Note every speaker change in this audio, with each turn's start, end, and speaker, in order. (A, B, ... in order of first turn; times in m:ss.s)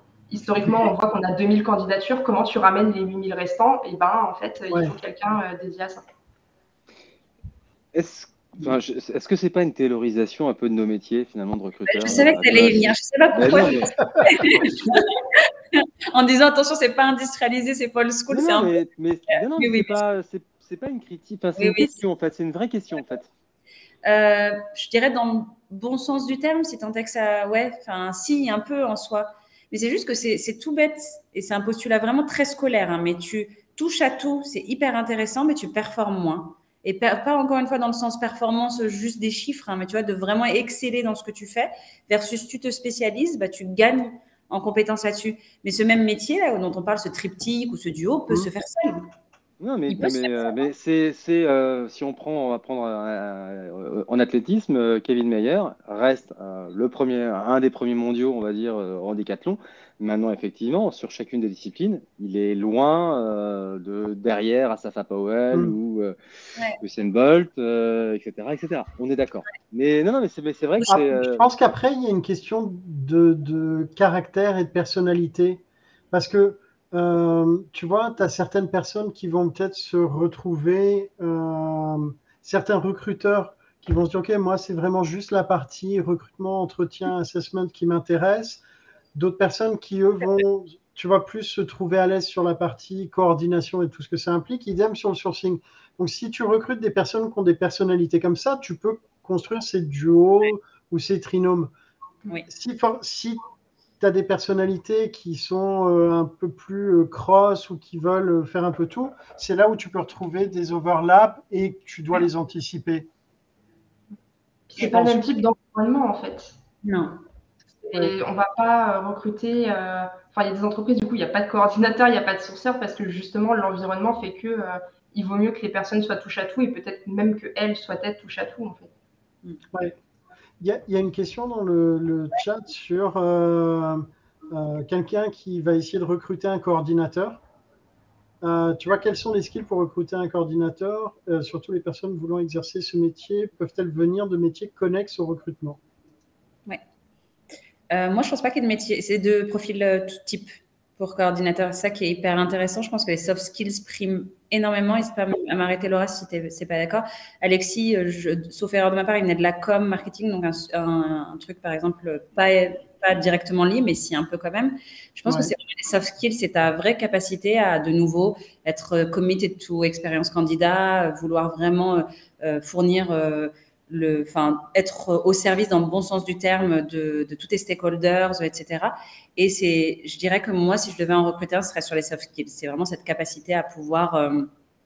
0:00.3-0:06.0 A
0:07.9-0:13.9 B
0:11.9-0:18.8 C
0:18.3-0:23.3 B
0:19.3-0:20.0 C
0:21.6-0:21.9 C
0:24.0-0:49.1 C
0:49.6-1:06.2 B
0:49.9-0:50.4 C
1:06.8-1:11.5 B
1:10.8-1:28.6 D
1:29.2-1:41.7 D
1:42.5-1:43.4 D
1:44.0-1:53.1 D
1:54.7-1:56.6 A
1:54.8-1:55.2 D
1:56.8-1:57.2 C
1:57.8-2:08.9 A
2:10.6-2:17.4 D
2:18.4-2:25.8 D
2:27.9-3:04.5 C
2:45.3-2:45.5 D